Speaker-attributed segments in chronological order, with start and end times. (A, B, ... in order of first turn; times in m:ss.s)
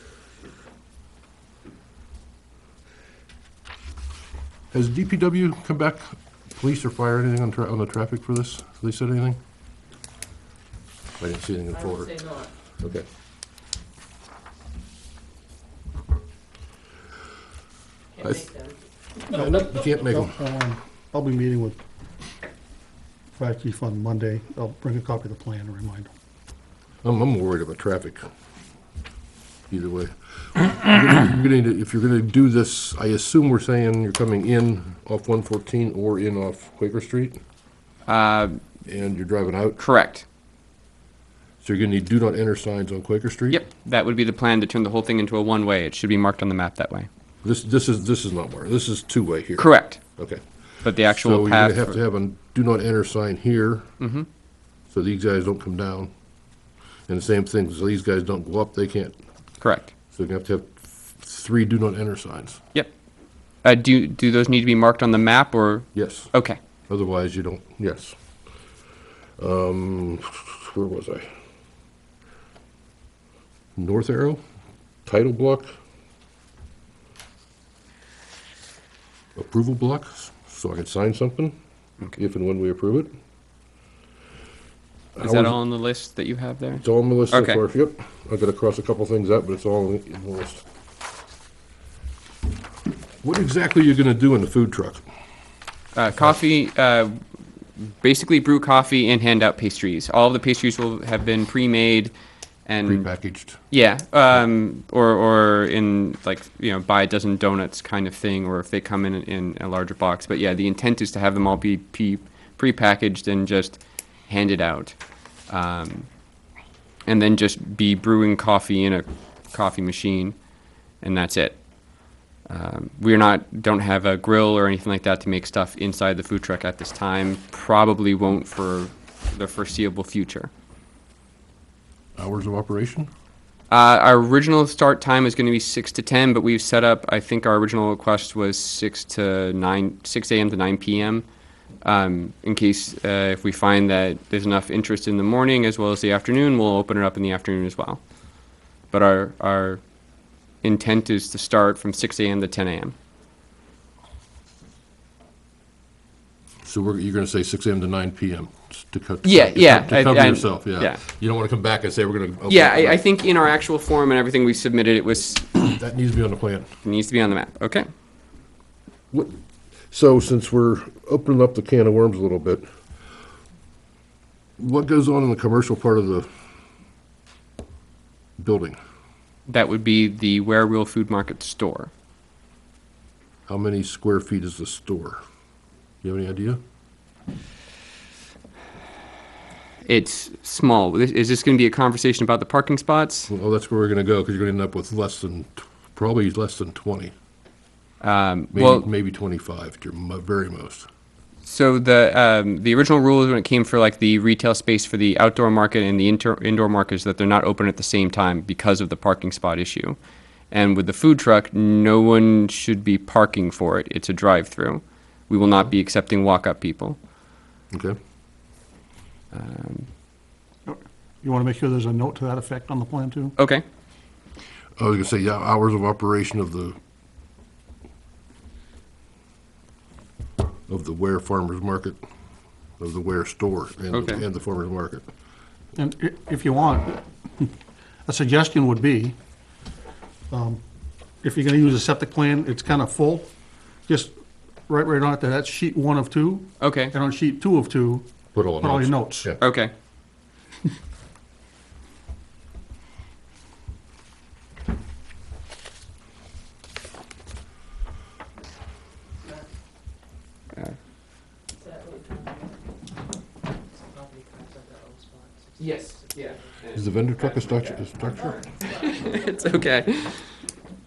0:04.7-0:09.4 A
0:11.2-0:13.0 A
0:12.1-0:12.5 B
0:18.2-0:18.7 B
0:18.2-0:18.5 A
0:19.3-0:20.3 A
0:19.3-0:21.8 C
0:23.4-0:26.1 C
0:27.0-0:28.2 A
0:29.7-0:37.4 A
0:38.1-0:38.6 D
0:38.9-0:39.8 A
0:39.8-0:40.2 D
0:41.6-0:43.6 A
0:43.5-0:47.1 D
0:47.4-0:50.4 A
0:49.6-0:50.0 D
0:50.8-0:52.0 D
0:51.0-0:53.9 A
0:54.0-0:54.2 D
0:54.9-0:56.1 A
0:57.1-0:59.2 A
0:59.6-0:59.9 D
1:00.1-1:02.6 A
1:03.6-1:06.6 D
1:05.9-1:06.3 A
1:06.9-1:08.2 A
1:09.4-1:11.3 A
1:13.8-1:14.4 A
1:15.0-1:15.7 A
1:19.4-1:21.6 A
1:22.2-1:23.1 A
1:25.2-1:25.6 A
1:25.2-1:27.6 D
1:26.8-1:30.6 A
1:33.2-1:35.0 A
1:35.9-1:37.2 D
1:37.8-1:42.1 D
1:42.6-1:43.1 D
1:42.8-1:43.6 A
1:43.7-1:55.0 D
1:55.5-1:56.1 D
1:57.0-2:00.4 D
2:01.0-2:01.6 D
2:02.4-2:10.5 D
2:12.2-2:13.1 A
2:13.7-2:21.2 D
2:21.8-2:28.0 D
2:28.9-2:29.8 D
2:30.6-2:32.9 D
2:36.6-2:43.0 A
2:39.2-2:41.0 D
2:42.5-2:45.5 D
2:45.5-2:46.7 A
2:46.8-2:47.9 D
2:49.9-2:52.6 A
2:54.6-2:56.3 A
2:58.4-2:58.8 A
2:59.5-3:01.9 D
3:03.5-3:05.2 A
3:06.0-3:06.6 A
3:09.8-3:13.3 D
3:13.3-3:17.1 A
3:18.0-3:18.9 D
3:18.5-3:20.8 A
3:21.4-3:30.0 D
3:30.5-3:37.0 D
3:37.7-3:38.0 A
3:39.3-3:39.9 D
3:40.6-3:43.3 C
3:43.4-3:43.6 D
3:44.8-3:46.8 A
3:50.7-3:52.0 A
3:52.8-3:55.0 A
3:53.9-3:54.2 D
3:55.7-3:57.5 C
3:58.0-3:59.2 C
4:00.3-4:00.6 C
4:01.2-4:03.3 C
4:03.9-4:04.1 C
4:04.7-4:09.3 C
4:06.6-4:06.9 D
4:08.3-4:09.4 A
4:09.4-4:09.7 D
4:21.6-4:22.6 B
4:23.7-4:26.8 B
4:25.6-4:27.6 D
4:26.7-4:28.4 A
4:27.9-4:29.8 B
4:28.6-4:30.3 D